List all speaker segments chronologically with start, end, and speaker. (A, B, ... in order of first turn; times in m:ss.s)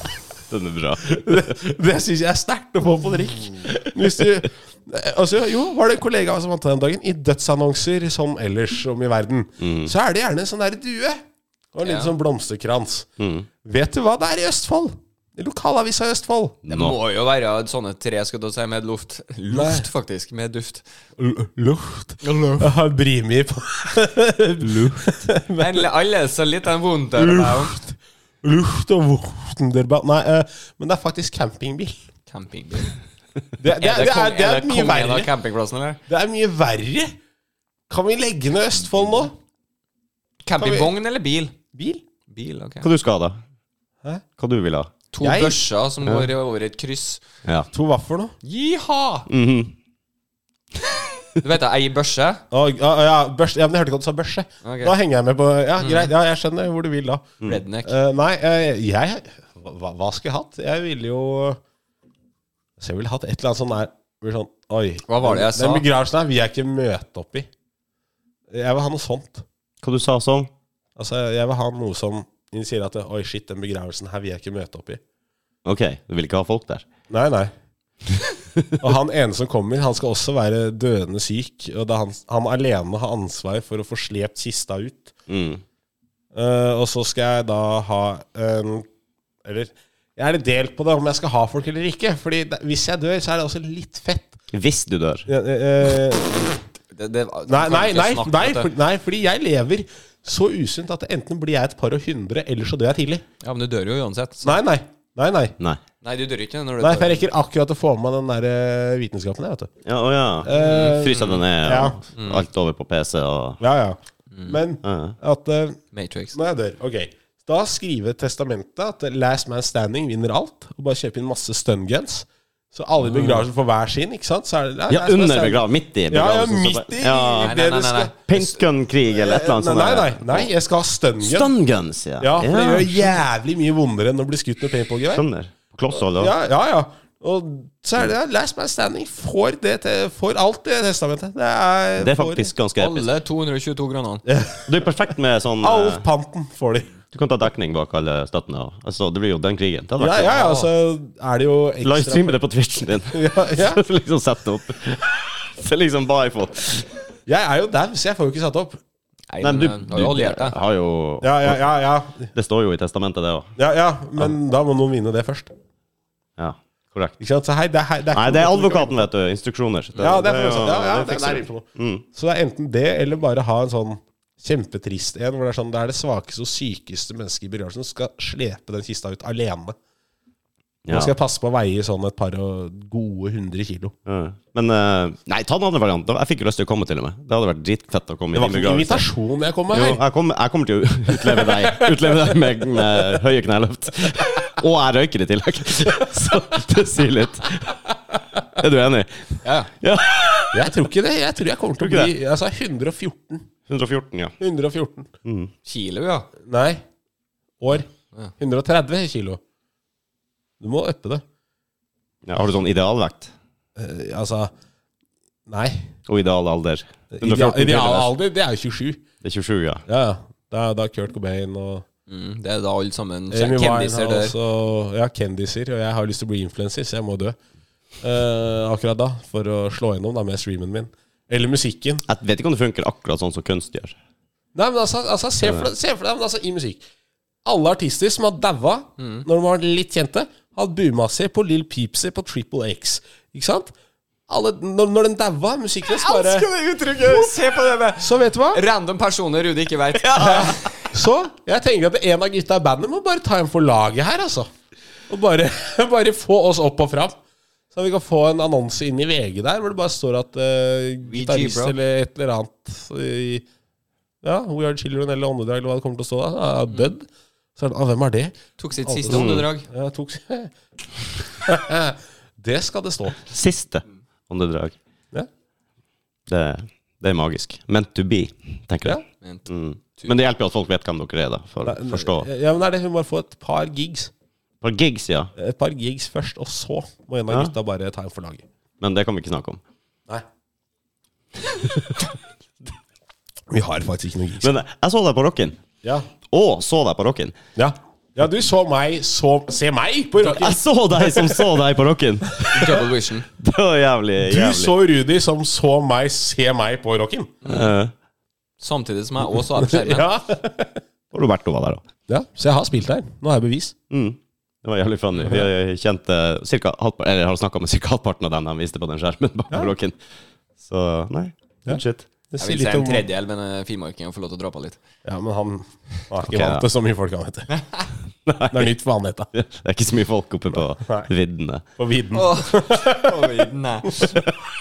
0:00.5-0:01.5 A
0:01.0-0:13.1 B
0:09.6-0:09.9 A
0:11.8-0:12.1 C
0:13.2-0:13.5 A
0:13.6-0:16.6 B
0:16.6-0:17.0 A
0:16.7-0:20.8 C
0:19.5-0:19.9 B
0:21.2-0:25.9 B
0:22.2-0:22.7 C
0:25.6-0:27.8 C
0:27.2-0:32.0 B
0:32.3-0:33.0 C
0:33.6-0:35.3 B
0:33.7-0:36.0 C
0:36.1-0:37.1 B
0:37.9-0:39.3 B
0:40.4-0:41.6 C
0:40.6-0:40.9 B
0:41.7-0:42.0 B
0:42.3-0:42.9 C
0:42.8-0:43.4 A
0:44.4-0:44.9 A
0:45.1-0:47.2 C
0:45.2-0:45.6 B
0:47.7-0:48.3 B
0:48.4-0:49.3 C
0:49.3-0:49.7 A
0:51.4-0:52.4 C
0:52.5-1:01.6 B
0:54.6-0:55.0 C
0:55.8-0:56.1 C
0:57.4-0:58.0 C
1:02.8-1:07.5 B
1:05.1-1:05.9 C
1:08.5-1:09.4 B
1:09.8-1:10.5 A
1:11.0-1:15.0 B
1:15.6-1:16.9 A
1:17.1-1:17.5 B
1:18.2-1:18.8 A
1:18.8-1:25.1 B
1:25.3-1:25.6 A
1:26.3-1:28.9 B
1:29.4-1:34.4 B
1:34.5-1:35.3 A
1:35.3-1:36.6 B
1:36.9-1:38.7 C
1:37.5-1:43.2 B
1:43.4-1:44.6 C
1:44.4-1:45.5 B
1:46.0-1:47.3 C
1:46.8-1:49.7 B
1:49.8-1:53.6 A
1:50.4-1:52.0 B
1:50.5-1:51.4 C
1:52.2-1:52.4 C
1:53.6-1:55.8 B
1:54.3-1:54.6 C
1:54.8-1:55.2 A
1:55.9-1:56.4 C
1:56.3-2:08.6 B
2:04.9-2:07.6 A
2:07.4-2:08.1 C
2:08.3-2:10.5 A
2:09.1-2:11.5 B
2:11.2-2:13.2 A
2:12.2-2:15.2 B
2:15.1-2:16.3 A
2:16.1-2:22.5 B
2:22.0-2:23.1 A
2:22.8-2:24.2 C
2:24.3-2:24.7 B
2:24.6-2:26.0 A
2:25.6-2:26.9 B
2:27.1-2:30.4 A
2:30.0-2:32.4 B
2:30.2-2:30.7 C
2:31.8-2:36.9 A
2:33.1-2:33.8 B
2:37.3-2:38.8 B
2:39.3-2:40.6 C
2:39.4-2:41.6 A
2:41.2-2:42.3 B
2:42.3-2:43.5 A
2:43.6-2:45.5 B
2:46.4-2:47.2 A
2:47.2-2:49.0 B
2:48.1-2:52.0 A
2:50.0-2:59.8 B
3:00.8-3:01.1 A
3:00.9-3:04.0 B
3:04.1-3:09.0 A
3:08.3-3:10.0 B
3:09.7-3:20.7 A
3:11.1-3:12.1 B
3:19.4-3:19.7 C
3:20.5-3:23.5 B
3:21.8-3:22.1 A
3:23.7-3:24.3 A
3:24.4-3:25.1 B
3:25.2-3:25.5 A
3:25.6-3:26.3 C
3:26.4-3:26.8 B
3:27.6-3:27.9 B
3:28.4-3:29.4 B
3:30.6-3:31.2 B
3:32.3-3:33.3 A
3:33.8-3:34.5 B
3:35.5-3:35.9 B
3:36.1-3:38.1 A
3:37.1-3:39.0 B
3:39.2-3:39.8 A
3:39.9-3:41.8 B
3:42.1-3:44.3 C
3:43.3-3:47.4 B
3:48.0-3:52.0 B
3:52.1-3:54.0 A
3:54.6-3:56.8 B
3:57.4-4:03.7 B
3:59.0-3:59.3 C
4:04.3-4:06.5 B
4:05.9-4:10.8 C
4:07.0-4:07.3 B
4:08.0-4:08.6 B
4:10.2-4:14.5 B
4:15.1-4:17.2 B
4:17.7-4:23.4 B
4:21.0-4:21.8 C
4:24.2-4:30.5 B
4:28.6-4:29.7 C
4:29.1-4:29.5 A
4:31.4-4:33.2 B
4:33.3-4:34.8 A
4:36.3-4:42.3 A
4:39.2-4:39.4 C
4:41.6-4:44.1 B
4:44.6-4:45.3 A
4:45.4-4:48.4 B
4:48.8-4:49.6 A
4:51.5-4:51.9 A
4:53.5-4:54.5 B
4:54.4-4:55.6 A
4:55.8-4:56.1 B
4:56.3-4:57.4 A
4:57.6-5:01.5 B
5:00.2-5:02.8 A
5:02.5-5:03.3 C
5:03.4-5:04.7 A
5:04.2-5:07.4 B
5:07.4-5:07.7 C
5:07.4-5:07.9 A
5:08.6-5:10.1 C
5:09.6-5:10.8 B
5:11.1-5:11.8 A
5:12.1-5:13.7 B
5:13.9-5:20.0 A
5:20.6-5:22.1 A
5:21.7-5:23.0 B
5:22.4-5:24.8 C
5:25.0-5:27.5 B
5:26.2-5:26.6 A
5:27.5-5:27.9 C
5:28.3-5:28.7 A
5:28.5-5:29.3 B
5:29.3-5:31.6 A
5:31.8-5:33.3 B
5:32.1-5:34.2 C